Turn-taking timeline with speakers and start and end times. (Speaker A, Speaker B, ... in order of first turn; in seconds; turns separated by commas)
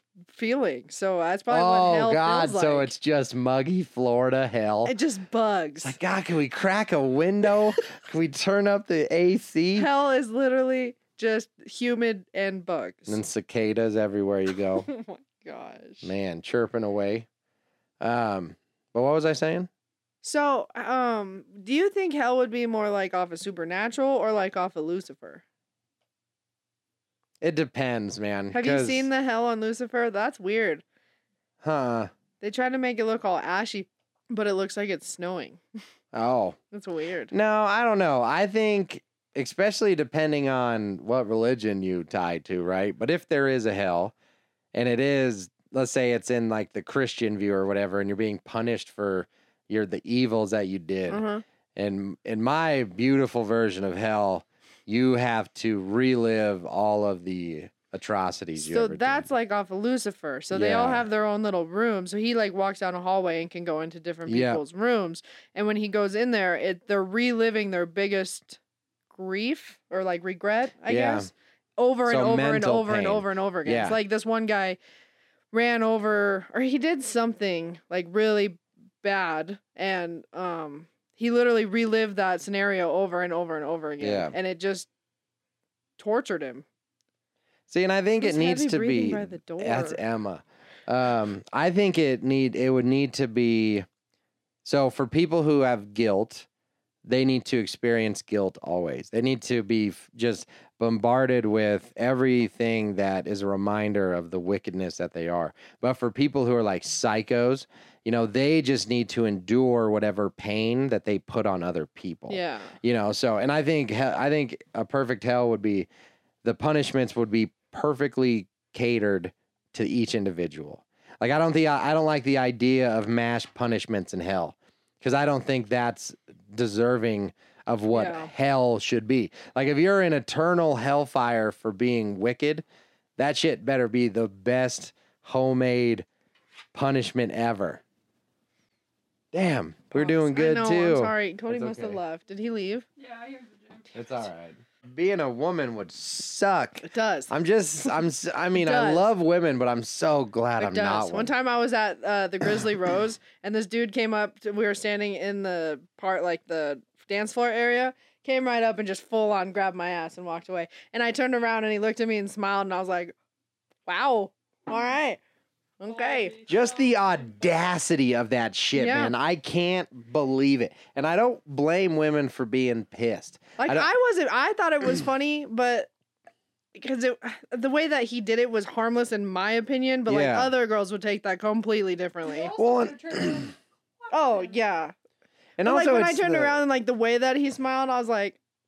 Speaker A: 0.3-2.9, Speaker B: 1.5-5.0, Speaker A: 4.8-6.0, Speaker B: 5.8-9.9, Speaker A: 9.8-13.2, Speaker B: 13.1-14.9, Speaker A: 14.8-16.1, Speaker B: 16.0-17.3, Speaker B: 18.0-19.7, Speaker A: 20.2-25.4, Speaker B: 27.4-29.1, Speaker A: 28.5-30.8, Speaker B: 31.6-32.1, Speaker A: 32.4-35.6, Speaker B: 36.1-36.6, Speaker A: 36.7-37.3, Speaker B: 37.3-44.1, Speaker B: 44.7-51.2, Speaker A: 51.1-51.4, Speaker B: 51.8-59.3, Speaker A: 58.6-68.6, Speaker B: 60.5-61.1, Speaker B: 64.3-64.6, Speaker A: 69.1-74.8, Speaker B: 70.9-71.3, Speaker B: 72.1-74.0, Speaker A: 75.5-84.9, Speaker B: 84.0-84.3, Speaker A: 86.0-86.7, Speaker B: 87.7-93.9, Speaker A: 88.2-90.0, Speaker B: 94.7-96.5, Speaker B: 97.0-115.9, Speaker A: 112.3-112.8, Speaker B: 116.4-132.7, Speaker A: 127.9-128.3, Speaker B: 133.2-136.1, Speaker B: 136.7-137.8, Speaker B: 139.3-142.0, Speaker A: 139.9-142.9, Speaker C: 143.0-143.9, Speaker B: 143.9-151.3, Speaker A: 146.8-148.0, Speaker A: 148.5-149.1, Speaker A: 150.6-163.2, Speaker A: 163.9-165.2, Speaker A: 165.8-166.5, Speaker C: 166.1-166.6, Speaker B: 166.5-173.9, Speaker A: 168.7-169.1, Speaker A: 173.6-175.9, Speaker A: 176.8-182.6, Speaker B: 180.1-180.5, Speaker B: 182.5-183.5, Speaker C: 182.7-183.5, Speaker A: 184.1-184.9, Speaker B: 185.6-186.6, Speaker A: 185.6-188.4